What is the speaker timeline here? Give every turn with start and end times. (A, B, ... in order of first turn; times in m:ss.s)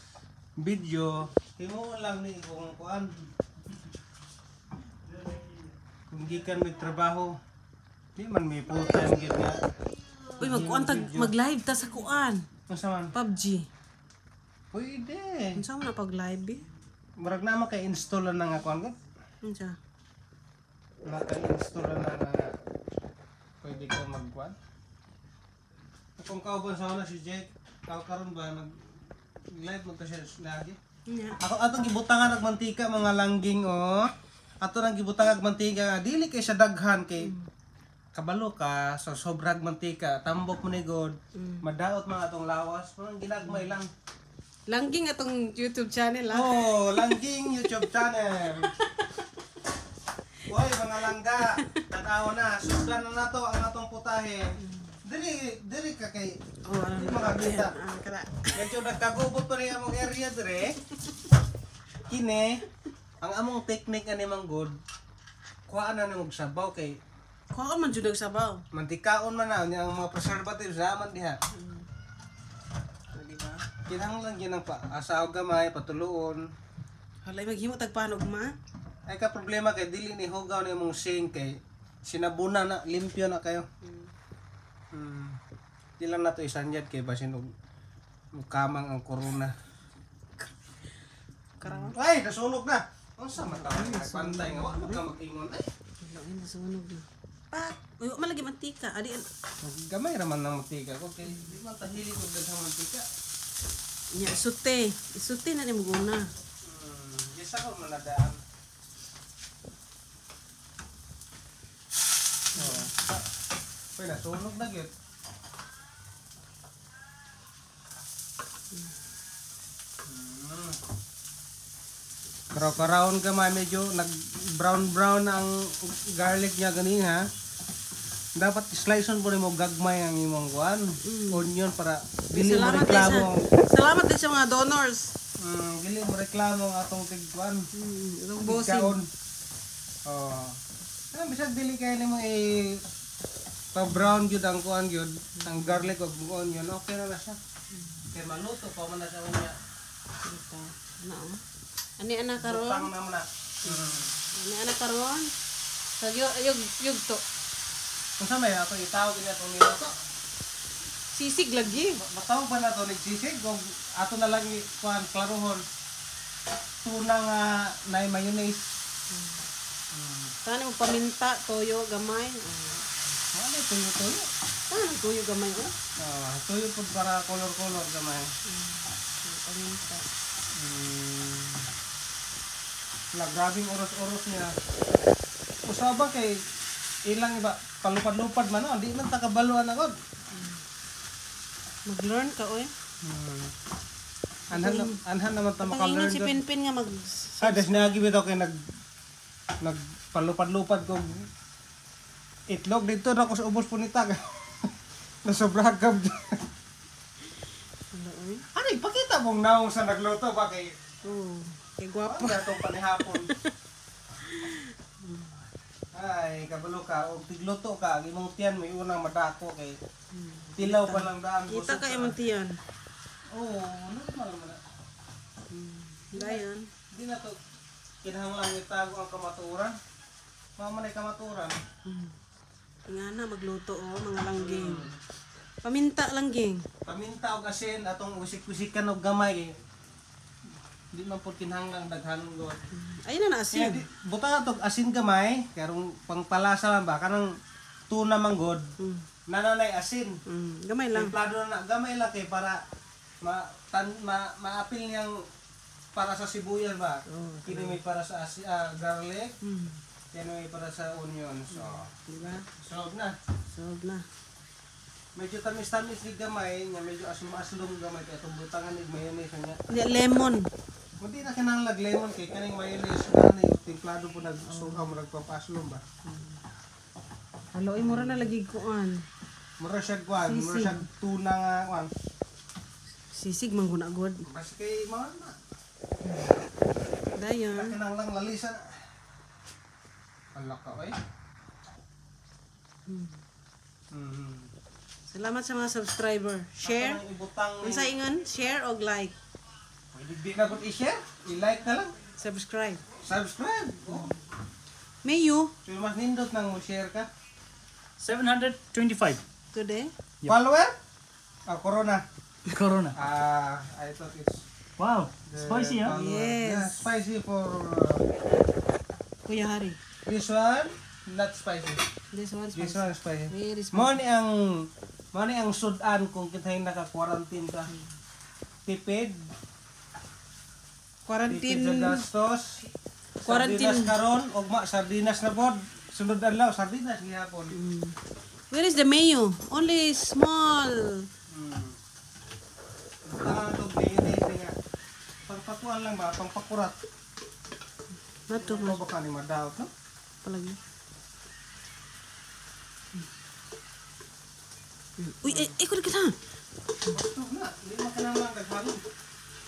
0:00.6-0:03.1 A
0:06.1-0:07.4 A
0:08.2-0:09.6 A
0:10.4-0:11.3 A
0:10.4-0:12.4 B
0:12.7-0:13.1 A
0:13.1-0:13.7 B
0:14.7-0:15.6 A
0:15.6-0:16.6 B
0:17.2-0:18.9 A
0:19.4-0:19.8 B
0:21.0-0:22.5 A
0:23.6-0:24.5 A
0:26.2-0:28.7 A
0:29.5-0:30.8 A
0:31.1-0:31.4 B
0:31.4-0:34.1 A
0:34.6-0:37.3 A
0:37.2-0:37.5 B
0:38.1-0:43.9 A
0:41.3-0:41.6 B
0:44.7-0:49.2 B
0:46.3-0:48.7 A
0:50.4-0:54.5 A
0:51.4-0:51.8 B
0:55.0-0:57.7 A
0:56.6-0:58.7 B
0:58.5-1:00.8 A
1:02.1-1:02.6 A
1:03.2-1:04.8 A
1:05.7-1:07.0 A
1:07.5-1:08.6 B
1:08.7-1:11.4 A
1:11.5-1:11.8 B
1:13.1-1:13.7 B
1:13.8-1:16.4 A
1:17.2-1:18.5 B
1:19.1-1:23.6 A
1:23.8-1:24.1 B
1:24.9-1:25.4 A
1:26.0-1:27.5 A
1:28.4-1:29.5 A
1:31.6-1:32.0 B
1:31.6-1:35.7 A
1:33.4-1:35.0 B
1:36.0-1:39.3 B
1:39.6-1:43.0 A
1:44.1-1:46.3 B
1:46.6-1:48.4 A
1:52.6-1:53.2 A
1:52.6-1:52.9 B
1:54.0-1:54.9 A
2:00.0-2:00.8 A
2:02.5-2:07.3 A
2:08.4-2:13.6 A
2:11.0-2:11.5 B
2:12.3-2:15.1 B
2:15.4-2:17.6 A
2:17.7-2:19.0 B
2:18.4-2:19.1 A
2:20.0-2:20.6 A
2:21.1-2:22.8 A
2:23.7-2:27.4 A
2:25.4-2:25.9 B
2:28.1-2:29.5 A
2:30.2-2:31.4 B
2:32.0-2:32.9 B
2:32.4-2:34.1 A
2:33.6-2:35.3 B
2:36.0-2:37.2 B
2:38.2-2:40.0 A
2:41.1-2:42.0 B
2:41.8-2:45.6 A
2:46.8-2:48.7 A
2:49.1-2:49.4 B
2:49.9-2:50.3 A
2:50.4-2:52.9 B
2:53.3-2:54.3 A
2:54.7-2:55.7 B
2:56.0-2:58.3 A
2:58.5-3:00.0 B
3:00.5-3:01.7 A
3:03.1-3:04.5 A
3:05.6-3:06.4 A
3:07.1-3:09.9 A
3:10.3-3:10.6 B
3:11.8-3:12.7 B
3:13.0-3:13.5 A
3:14.5-3:15.0 B
3:14.5-3:16.4 A
3:15.6-3:18.0 B
3:17.4-3:18.6 A
3:19.6-3:21.2 A
3:22.5-3:24.7 A
3:25.2-3:26.4 A
3:27.9-3:28.4 B
3:28.5-3:30.8 A
3:31.0-3:33.5 B
3:32.1-3:33.3 A
3:34.2-3:35.3 B
3:35.9-3:39.8 A
3:40.1-3:42.6 B
3:40.6-3:42.2 A
3:43.3-3:44.6 A
3:45.5-3:46.7 B
3:46.1-3:47.4 A
3:48.0-3:49.8 A
3:50.6-3:51.6 A
3:51.8-3:52.1 B
3:52.9-3:54.9 B
3:54.4-3:55.0 A
3:55.6-3:56.6 B
3:56.8-3:59.5 A
4:00.9-4:02.7 A
4:02.7-4:03.8 B
4:03.5-4:07.3 A
4:07.9-4:08.7 A
4:08.8-4:09.0 B
4:09.3-4:10.2 A
4:10.2-4:11.1 B
4:10.9-4:12.6 A
4:13.2-4:15.2 A
4:15.9-4:19.3 A
4:17.1-4:17.8 B
4:19.4-4:19.8 B
4:20.1-4:21.9 A
4:21.5-4:22.4 B
4:22.5-4:23.1 A
4:23.5-4:24.0 B
4:25.2-4:29.6 A
4:29.7-4:30.5 B
4:31.0-4:35.8 A
4:34.5-4:34.9 B
4:36.0-4:36.4 B
4:37.5-4:39.0 B
4:37.8-4:38.3 A
4:39.6-4:41.9 A
4:40.2-4:40.8 B
4:43.1-4:44.2 B
4:44.2-4:45.4 A
4:46.0-4:46.4 B
4:47.1-4:47.8 B
4:47.5-4:48.7 A
4:50.3-4:51.0 A
4:52.9-4:53.2 B
4:53.9-4:54.5 A
4:55.1-4:57.0 B
4:56.6-4:57.9 A
4:57.6-4:59.1 B
4:59.9-5:01.9 A
5:02.2-5:02.8 B
5:03.0-5:04.2 A
5:03.9-5:04.2 B
5:05.0-5:05.5 B
5:05.6-5:07.1 A
5:08.0-5:09.2 C
5:09.5-5:09.9 B
5:10.2-5:10.7 A
5:11.5-5:12.0 A
5:12.5-5:13.0 C
5:12.9-5:14.4 A
5:14.8-5:16.0 C
5:15.2-5:18.0 A
5:15.8-5:16.9 B
5:19.2-5:19.8 B
5:20.0-5:21.8 A
5:22.1-5:24.0 B
5:22.5-5:27.7 A
5:28.6-5:29.3 A
5:31.1-5:32.0 B
5:31.3-5:32.7 A
5:33.2-5:33.9 B
5:33.2-5:37.6 A
5:37.5-5:38.0 B
5:38.5-5:41.1 B
5:41.3-5:41.8 A
5:43.0-5:44.5 A
5:45.3-5:46.8 A
5:48.3-5:48.8 B
5:48.4-5:49.7 A
5:50.2-5:50.6 B
5:55.0-5:56.2 B
5:55.2-5:55.5 A
5:56.9-5:58.8 A